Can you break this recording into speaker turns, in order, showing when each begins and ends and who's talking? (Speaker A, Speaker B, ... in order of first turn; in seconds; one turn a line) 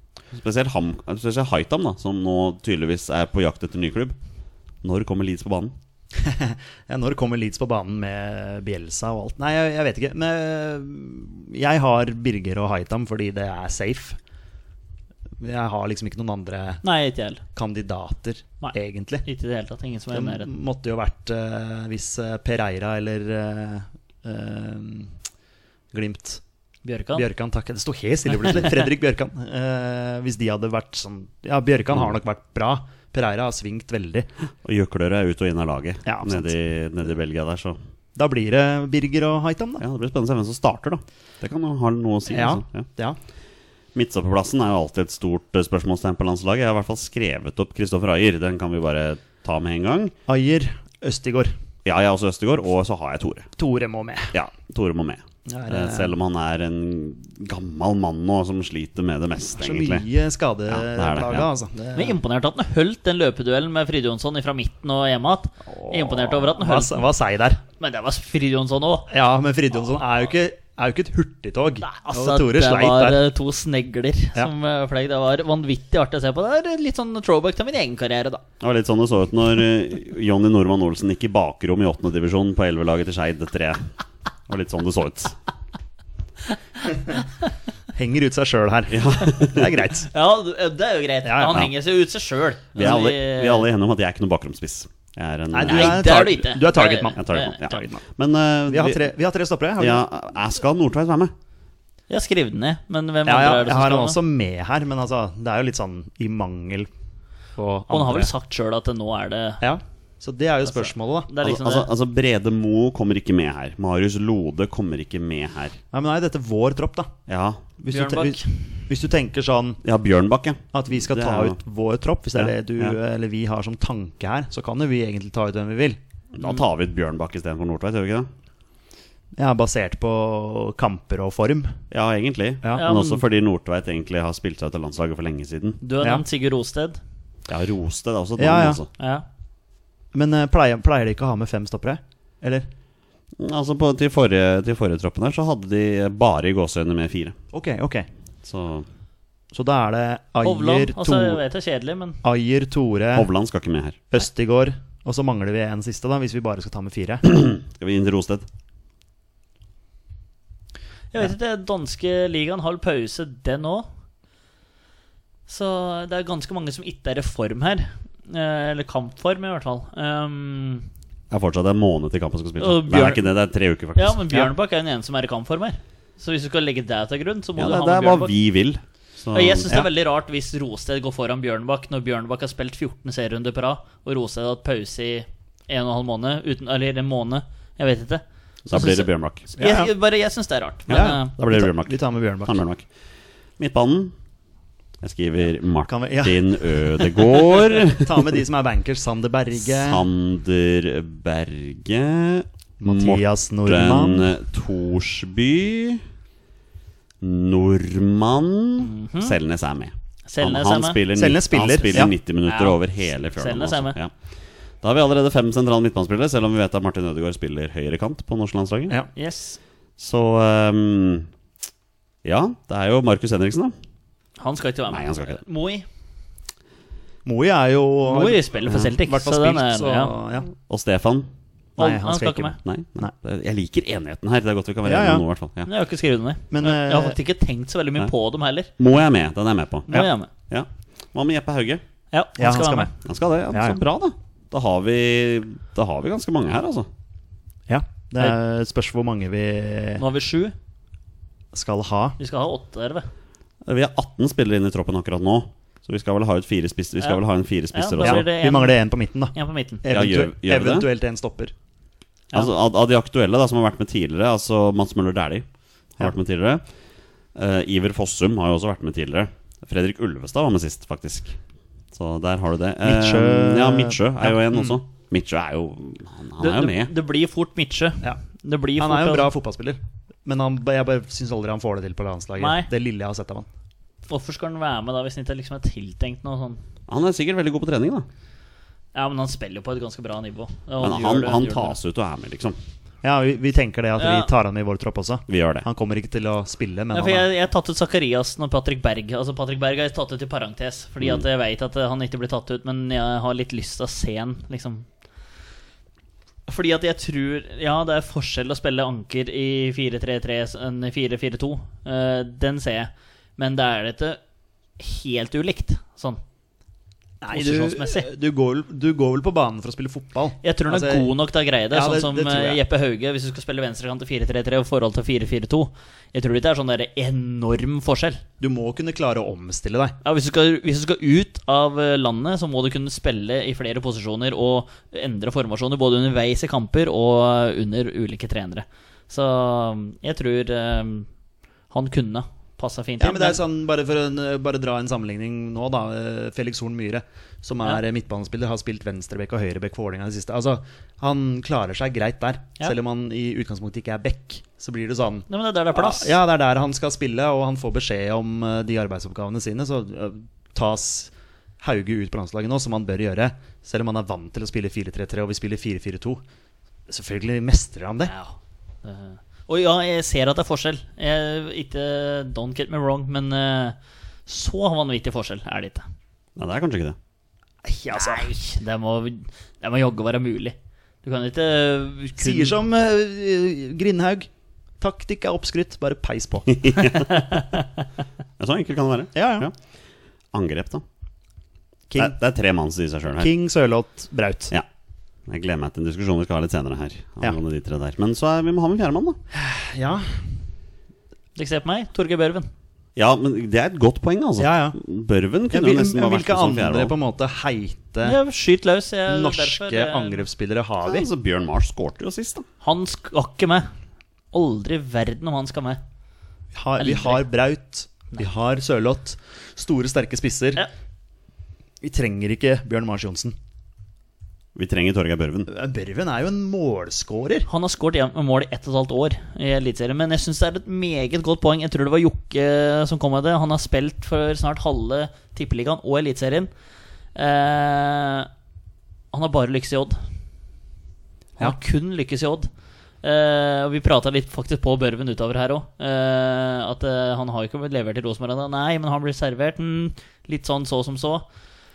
Speaker A: 0.3-4.2
Speaker A: 4.8-5.8
Speaker B: 6.2-14.2
Speaker B: 15.4-16.8
Speaker C: 16.8-17.4
Speaker B: 17.5-19.2
Speaker C: 18.6-20.5
Speaker B: 20.1-25.1
Speaker B: 25.9-26.4
Speaker C: 26.8-27.2
Speaker B: 27.1-34.3
Speaker A: 34.6-37.8
Speaker B: 36.0-36.5
Speaker B: 38.1-39.8
Speaker A: 39.8-42.9
Speaker B: 42.3-43.2
Speaker A: 43.9-50.1
Speaker B: 50.3-51.5
Speaker A: 51.8-53.5
Speaker B: 53.6-54.3
Speaker A: 54.3-60.0
Speaker B: 55.5-56.1
Speaker B: 59.5-62.2
Speaker A: 60.7-61.5
Speaker C: 61.9-67.0
Speaker A: 65.7-66.2
Speaker B: 66.5-67.6
Speaker C: 67.8-69.1
Speaker B: 69.1-73.2
Speaker C: 71.8-78.4
Speaker A: 78.6-83.9
Speaker A: 84.5-85.4
Speaker B: 87.9-90.1
Speaker A: 88.9-89.9
Speaker C: 90.1-93.7
Speaker B: 91.2-91.6
Speaker A: 92.8-96.1
Speaker B: 95.5-98.0
Speaker C: 95.6-97.8
Speaker A: 97.2-99.1
Speaker B: 98.7-100.0
Speaker A: 99.8-101.3
Speaker C: 102.1-104.2
Speaker B: 103.2-106.9
Speaker B: 107.5-108.3
Speaker C: 107.9-109.6
Speaker B: 109.6-111.3
Speaker C: 110.7-111.9
Speaker A: 111.4-115.8
Speaker B: 115.9-117.2
Speaker A: 117.3-117.6
Speaker B: 117.8-119.8
Speaker C: 117.9-118.8
Speaker A: 119.8-121.6
Speaker B: 120.7-126.0
Speaker A: 122.3-123.0
Speaker A: 126.3-128.3
Speaker B: 129.4-131.8
Speaker A: 131.9-135.8
Speaker C: 132.8-133.2
Speaker C: 135.8-137.0
Speaker A: 137.5-138.9
Speaker B: 138.4-138.8
Speaker C: 139.0-139.2
Speaker B: 140.1-142.7
Speaker A: 143.4-147.3
Speaker B: 147.5-148.1
Speaker A: 148.4-148.9
Speaker B: 149.5-151.4
Speaker C: 150.4-152.2
Speaker B: 152.2-153.3
Speaker A: 153.1-154.0
Speaker B: 154.1-157.3
Speaker A: 157.2-158.4
Speaker C: 161.1-163.9
Speaker C: 165.5-170.9
Speaker A: 171.3-174.2
Speaker C: 172.6-173.3
Speaker C: 173.9-178.3
Speaker A: 177.6-179.8
Speaker C: 179.3-191.3
Speaker A: 188.7-189.5
Speaker B: 189.6-189.9
Speaker A: 190.9-192.8
Speaker B: 190.9-192.5
Speaker A: 193.6-194.1
Speaker A: 195.0-198.3
Speaker B: 195.9-197.1
Speaker B: 197.7-200.1
Speaker A: 199.6-206.0
Speaker B: 202.8-204.3
Speaker A: 207.2-214.1
Speaker C: 208.8-209.4
Speaker C: 210.3-211.0
Speaker B: 211.1-212.1
Speaker C: 211.8-214.0
Speaker A: 214.8-218.9
Speaker C: 219.2-219.6
Speaker A: 220.0-221.3
Speaker A: 222.2-223.7
Speaker C: 224.4-225.8
Speaker A: 224.9-225.4
Speaker B: 227.2-230.5
Speaker C: 228.0-230.1
Speaker A: 230.7-231.3
Speaker C: 231.8-232.6
Speaker B: 231.8-233.1
Speaker A: 232.6-235.7
Speaker B: 234.8-235.2
Speaker C: 235.7-238.7
Speaker B: 236.5-237.2
Speaker A: 238.8-239.9
Speaker C: 239.9-240.3
Speaker A: 240.5-241.8
Speaker C: 242.1-242.9
Speaker B: 242.4-242.9
Speaker A: 243.0-246.9
Speaker B: 243.5-243.8
Speaker B: 247.7-250.0
Speaker C: 250.0-250.5
Speaker B: 251.5-252.2
Speaker C: 252.2-253.1
Speaker A: 253.6-258.2
Speaker C: 257.7-258.8
Speaker B: 258.0-261.5
Speaker C: 259.3-259.8
Speaker A: 259.9-260.9
Speaker A: 262.3-265.4
Speaker A: 266.0-266.6
Speaker A: 267.3-271.4
Speaker A: 271.9-276.9
Speaker B: 272.8-274.4
Speaker C: 276.4-279.3
Speaker B: 278.8-283.5
Speaker C: 282.4-282.7
Speaker C: 284.1-286.6
Speaker A: 286.9-288.1
Speaker C: 288.9-291.8
Speaker A: 290.8-292.6
Speaker B: 293.0-297.3
Speaker C: 294.0-294.3
Speaker A: 295.3-295.6
Speaker C: 296.9-304.9
Speaker C: 306.5-314.2
Speaker C: 314.8-316.2
Speaker B: 317.2-321.1
Speaker C: 317.3-318.1
Speaker C: 320.4-328.2
Speaker B: 321.7-322.6
Speaker B: 328.4-329.9
Speaker C: 330.0-341.1
Speaker C: 341.7-343.4
Speaker B: 343.0-366.2
Speaker C: 355.3-356.1
Speaker B: 366.9-368.1
Speaker C: 368.1-375.8
Speaker A: 376.4-376.9
Speaker B: 377.6-378.4
Speaker C: 377.9-382.6
Speaker B: 382.2-384.3
Speaker B: 384.8-386.6
Speaker A: 386.5-387.2
Speaker C: 387.1-387.6
Speaker A: 388.4-389.5
Speaker B: 389.1-389.5
Speaker A: 390.3-390.8
Speaker B: 391.9-392.1
Speaker A: 391.9-393.3
Speaker B: 393.2-394.5
Speaker A: 395.3-399.2
Speaker B: 399.3-400.3
Speaker C: 401.4-402.5
Speaker A: 402.9-406.9
Speaker B: 404.4-404.8
Speaker B: 405.5-408.2
Speaker C: 408.0-410.2
Speaker B: 409.1-411.1
Speaker A: 410.8-412.4
Speaker C: 412.6-413.7
Speaker C: 414.3-415.8
Speaker B: 416.5-420.6
Speaker C: 416.8-417.2
Speaker B: 421.8-423.3
Speaker A: 424.5-425.5
Speaker B: 425.5-427.5
Speaker C: 427.5-436.5
Speaker C: 437.1-438.3
Speaker C: 439.1-440.1
Speaker C: 441.4-442.5
Speaker C: 443.0-451.2